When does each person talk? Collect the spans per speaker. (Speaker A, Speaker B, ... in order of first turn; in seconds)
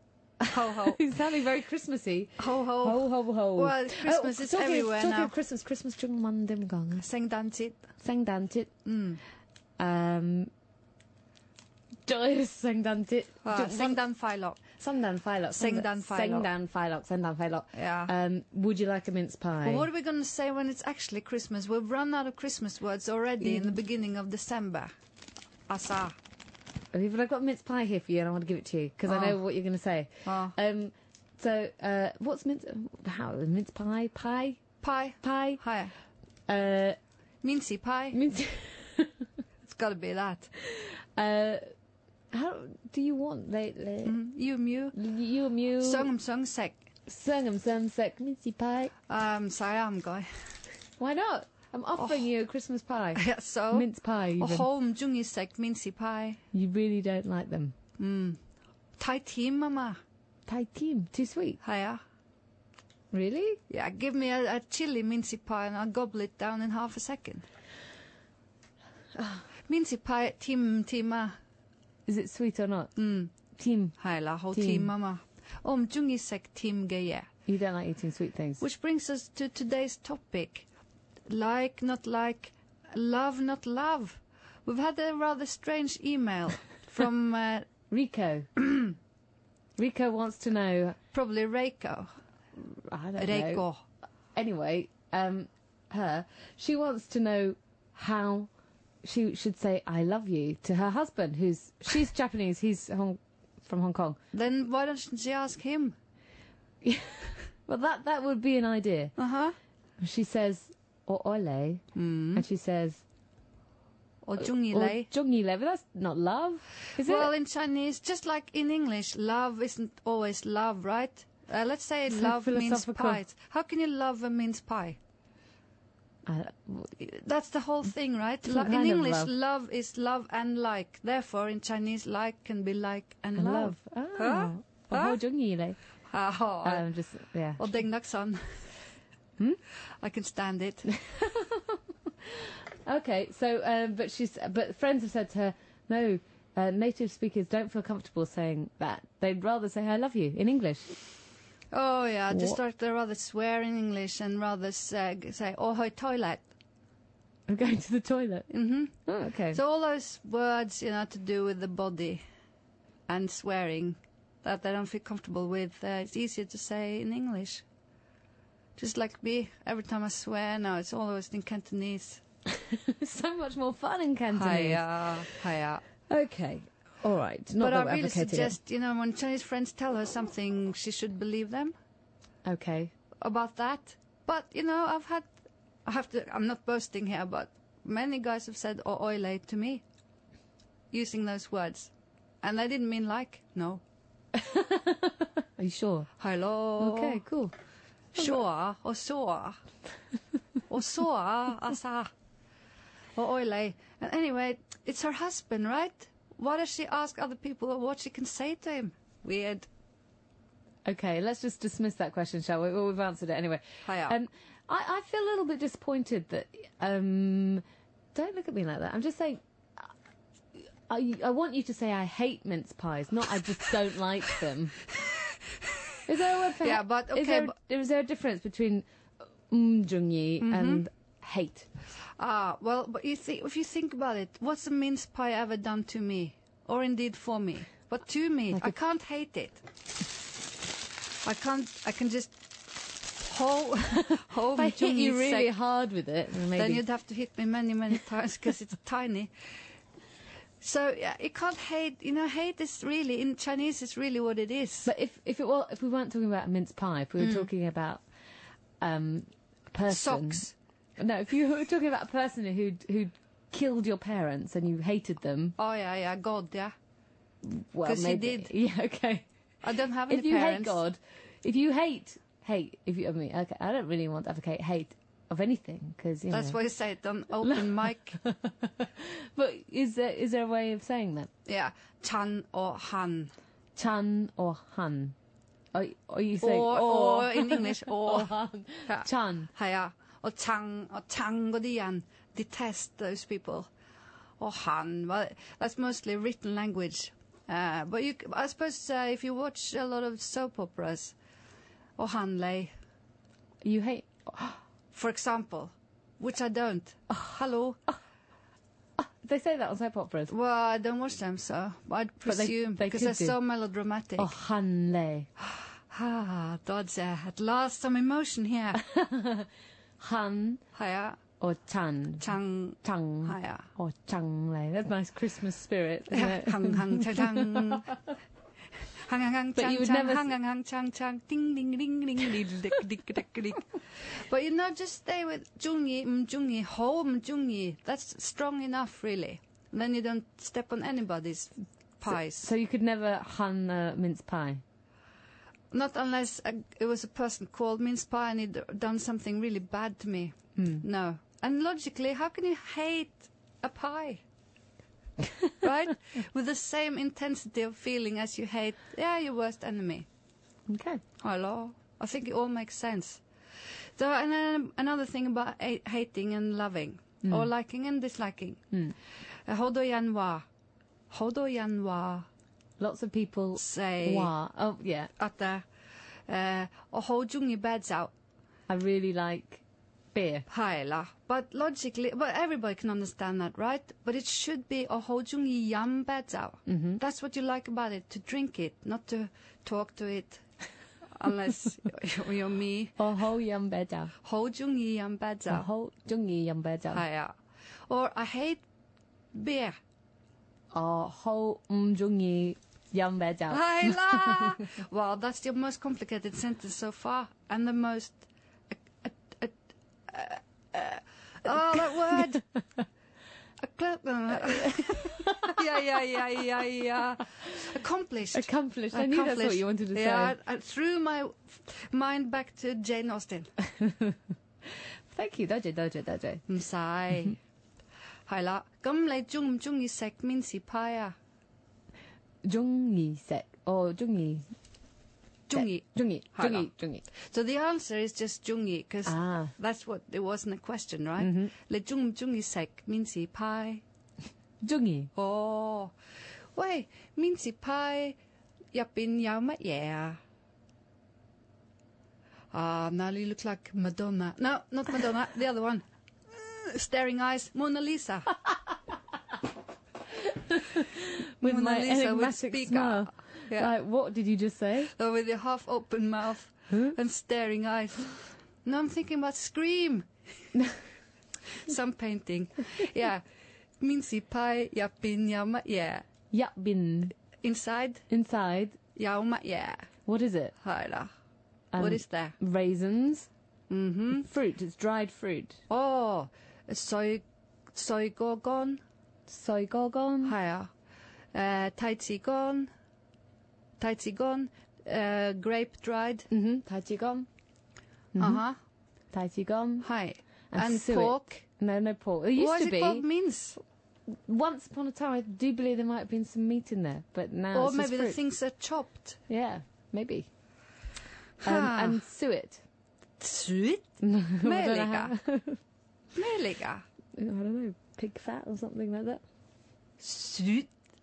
Speaker A: 0.4-7.0, 8.0-8.7, 9.8-10.5, 12.1-14.0, 14.7-19.9, 23.4-23.7, 26.9-34.6, 35.2-35.6, 36.5-37.0, 38.1-39.2, 40.7-41.6, 42.3-44.2, 44.9-46.1, 47.1-48.9, 51.0-54.6, 56.5-57.7, 60.5-61.6, 63.1-63.6, 69.2-69.4, 72.1-72.9, 73.5-74.0, 74.5-74.9, 77.5-78.6, 87.9-88.6, 89.8-91.0, 92.6-93.6, 94.3-98.5, 99.0-104.2, 106.8-109.1, 110.0-111.8, 112.3-113.0, 114.4-117.3, 122.1-123.2, 126.2-127.0, 128.4-129.3, 133.4-135.8, 136.6-137.6, 141.0-150.9, 152.3-152.6, 157.5-158.5, 159.1-159.6, 172.5-174.9, 176.1-178.6, 182.4-182.9, 194.4-196.1, 196.8-197.5, 210.8-217.6, 218.1-219.9, 220.6-224.8, 226.1-228.8, 229.5-231.7, 244.6-246.8, 254.8-258.0, 258.8-260.4, 261.0-265.6, 267.4-269.3, 270.1-276.6, 277.5-281.3, 283.8-285.1, 285.7-289.5, 303.6-304.6, 307.1-307.4, 309.0-310.3, 312.2-313.4, 314.2-315.3, 318.8-320.6, 321.4-328.0, 329.6-330.3, 342.1-344.6, 350.6-350.8, 360.7-361.0, 367.2-367.5, 372.8-375.1, 378.7-379.6, 380.1-380.4, 386.6-387.0, 393.0-394.1, 395.5-397.0, 400.7-404.5, 414.4-415.5, 418.3-420.4, 423.8-424.1, 425.1-426.4, 432.4-434.5, 435.5-437.0, 439.1-439.5, 441.2-441.5, 444.6-445.1, 460.1-464.9, 466.7-466.9, 476.3-477.1, 478.1-478.8, 480.1-480.5, 481.7-483.3, 484.1-485.6, 489.3-490.3, 496.3-497.3, 498.1-498.4, 499.1-499.9, 500.5-503.0, 504.1-508.2, 509.3-510.3, 511.4-512.6, 514.0-515.6, 517.2-519.2
Speaker B: 0.5-1.0, 2.4-5.3, 7.0-7.8, 8.8-9.2, 13.4-14.6, 15.6-16.5, 17.7-18.1, 19.6-24.9, 25.7-26.2, 29.1-29.4, 30.2-30.6, 34.8-35.9, 37.4-38.2, 39.6-40.5, 44.0-45.0, 45.8-46.8, 49.1-50.3, 52.0-52.2, 53.1-56.4, 58.0-58.4, 59.0-60.0, 61.6-62.0, 63.7-67.4, 69.7-71.3, 73.0-73.3, 74.0-77.3, 78.6-80.7, 81.3-87.7, 91.1-92.1, 93.2-93.8, 104.3-106.0, 109.2-109.5, 111.9-112.4, 114.2-115.1, 117.0-125.0, 127.0-135.2, 136.1-136.8, 137.6-138.6, 140.0-140.9, 151.7-156.4, 158.5-162.2, 163.1-167.6, 168.8-172.2, 174.3-175.8, 177.6-181.7, 183.2-185.3, 185.8-189.8, 190.9-193.8, 196.2-197.2, 198.1-199.6, 200.7-202.1, 203.2-209.7, 213.8-214.2, 226.6-227.5, 230.4-230.8, 232.2-239.6, 241.2-245.5, 246.5-249.3, 250.6-254.9, 257.2-257.5, 259.9-260.5, 265.6-266.7, 267.8-268.5, 269.6-270.8, 276.3-278.2, 281.4-283.3, 286.4-293.7, 294.4-301.1, 302.0-302.7, 304.9-307.8, 310.3-314.3, 315.9-318.8, 320.7-321.2, 322.2-323.7, 326.1-327.9, 329.0-342.5, 345.7-354.2, 355.6-360.1, 361.2-363.2, 364.0-368.6, 369.4-370.4, 371.1-372.3, 373.6-374.3, 375.2-375.6, 376.3-378.1, 380.5-390.4, 391.1-393.0, 394.2-395.7, 396.9-397.3, 397.9-398.6, 399.3-399.7, 403.5-409.5, 410.1-412.4, 413.6-423.5, 426.5-427.4, 428.3-431.1, 435.5-443.8, 445.1-445.9, 446.5-448.1, 448.7-450.2, 452.5-458.3, 461.4-463.7, 464.9-470.1, 471.6-473.2, 473.8-476.1, 477.4-478.0, 478.9-479.9, 480.6-481.1, 481.8-482.4, 483.7-484.3, 485.7-487.2, 487.7-488.8, 490.2-490.7, 491.3-492.7, 493.8-496.3, 498.2-498.6, 499.8-501.4, 502.4-503.6, 507.5-509.2, 511.4-512.0, 513.2-515.1, 516.1-516.8, 520.0-520.7